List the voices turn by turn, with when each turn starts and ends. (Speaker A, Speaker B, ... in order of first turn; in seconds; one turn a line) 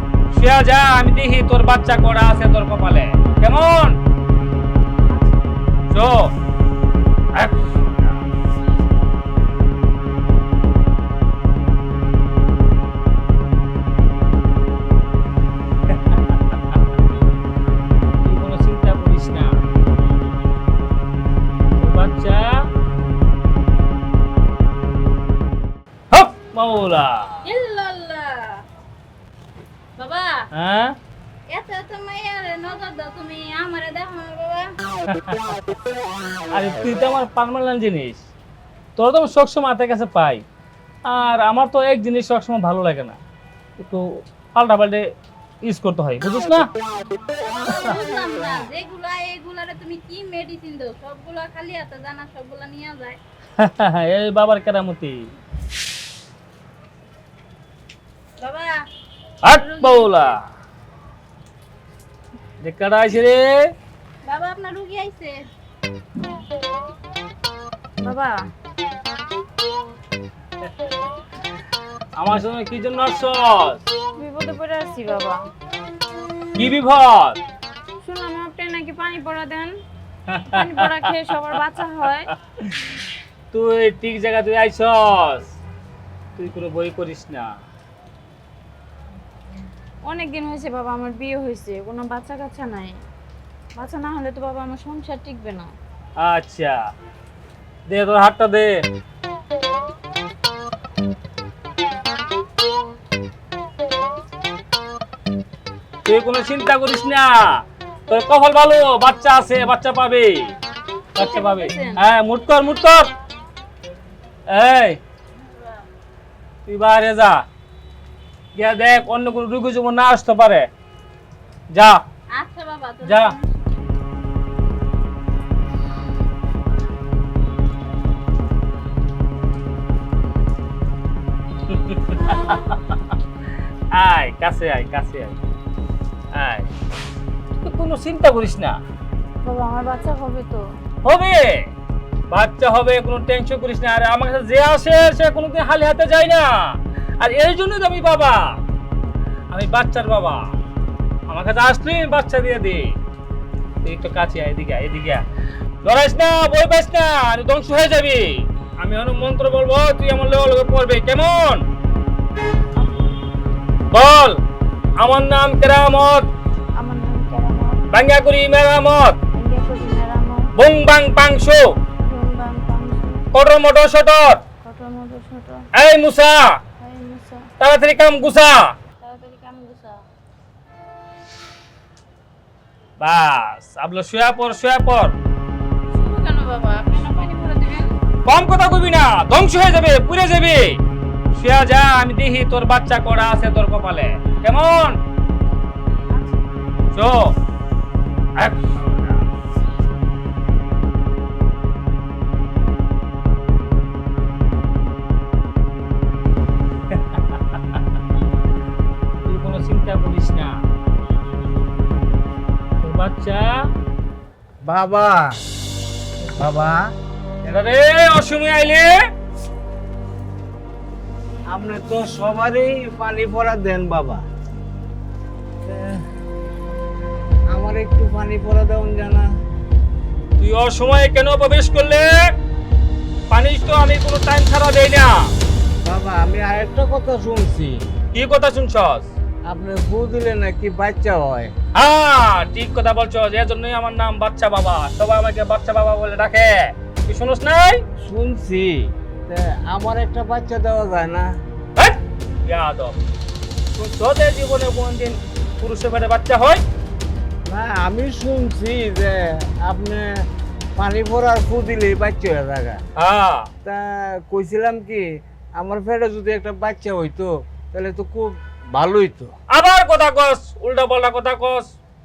Speaker A: 0.3-3.9
Speaker A: 5.9-6.3
Speaker A: 7.3-7.8
Speaker A: 15.9-16.3
Speaker A: 18.2-19.6
Speaker A: 21.8-22.6
Speaker A: 26.1-27.4
Speaker B: 27.4-28.6
Speaker B: 29.9-30.4
Speaker A: 30.5-30.9
Speaker B: 31.5-34.7
Speaker A: 35.1-35.5
Speaker A: 36.5-38.2
Speaker A: 39.0-40.4
Speaker A: 41.0-43.2
Speaker A: 43.8-45.0
Speaker A: 45.6-46.7
Speaker B: 47.5-53.2
Speaker A: 53.6-55.3
Speaker B: 58.4-58.8
Speaker A: 59.4-60.4
Speaker B: 59.5-60.3
Speaker A: 62.6-63.7
Speaker B: 64.2-65.4
Speaker C: 68.0-68.5
Speaker A: 72.2-73.8
Speaker C: 74.2-75.4
Speaker A: 76.5-77.4
Speaker C: 78.0-79.7
Speaker A: 80.3-81.1
Speaker C: 80.5-82.3
Speaker A: 82.6-82.9
Speaker A: 83.5-85.5
Speaker A: 86.4-87.5
Speaker C: 90.0-93.0
Speaker C: 93.8-95.7
Speaker A: 96.2-96.8
Speaker A: 97.9-98.8
Speaker A: 106.0-110.5
Speaker A: 111.1-113.1
Speaker B: 111.2-112.0
Speaker A: 114.5-115.0
Speaker B: 115.5-115.8
Speaker A: 116.7-117.4
Speaker A: 118.5-120.7
Speaker A: 121.7-122.0
Speaker B: 122.3-123.5
Speaker A: 123.0-123.3
Speaker A: 131.7-133.0
Speaker A: 133.9-135.4
Speaker A: 136.3-136.7
Speaker A: 137.6-138.8
Speaker C: 139.4-140.7
Speaker A: 141.0-141.7
Speaker A: 142.3-148.6
Speaker A: 149.5-150.5
Speaker A: 151.3-152.9
Speaker A: 153.8-155.2
Speaker A: 155.8-161.6
Speaker A: 163.9-164.4
Speaker A: 165.0-166.3
Speaker C: 166.8-167.8
Speaker A: 167.9-169.2
Speaker C: 169.3-170.5
Speaker A: 170.6-171.8
Speaker C: 172.0-173.3
Speaker A: 173.3-174.4
Speaker C: 174.6-175.7
Speaker A: 175.8-176.6
Speaker C: 176.8-177.4
Speaker A: 177.6-178.7
Speaker C: 179.0-180.0
Speaker A: 183.0-185.1
Speaker C: 185.9-188.0
Speaker A: 188.2-190.8
Speaker A: 191.3-195.0
Speaker A: 196.9-197.3
Speaker A: 198.4-199.2
Speaker A: 206.9-207.4
Speaker A: 209.2-210.6
Speaker A: 212.8-213.6
Speaker D: 214.7-215.3
Speaker D: 216.4-216.8
Speaker A: 217.4-219.0
Speaker D: 221.5-224.2
Speaker D: 225.7-226.0
Speaker D: 227.5-229.3
Speaker A: 230.4-232.3
Speaker A: 233.3-235.3
Speaker D: 235.8-237.8
Speaker A: 238.1-239.1
Speaker D: 239.5-241.5
Speaker A: 241.8-247.8
Speaker D: 248.0-251.3
Speaker A: 251.8-253.0
Speaker A: 253.8-256.6
Speaker D: 257.5-260.2
Speaker D: 260.8-262.8
Speaker A: 263.0-263.5
Speaker D: 263.6-265.1
Speaker D: 265.6-269.3
Speaker A: 269.5-271.7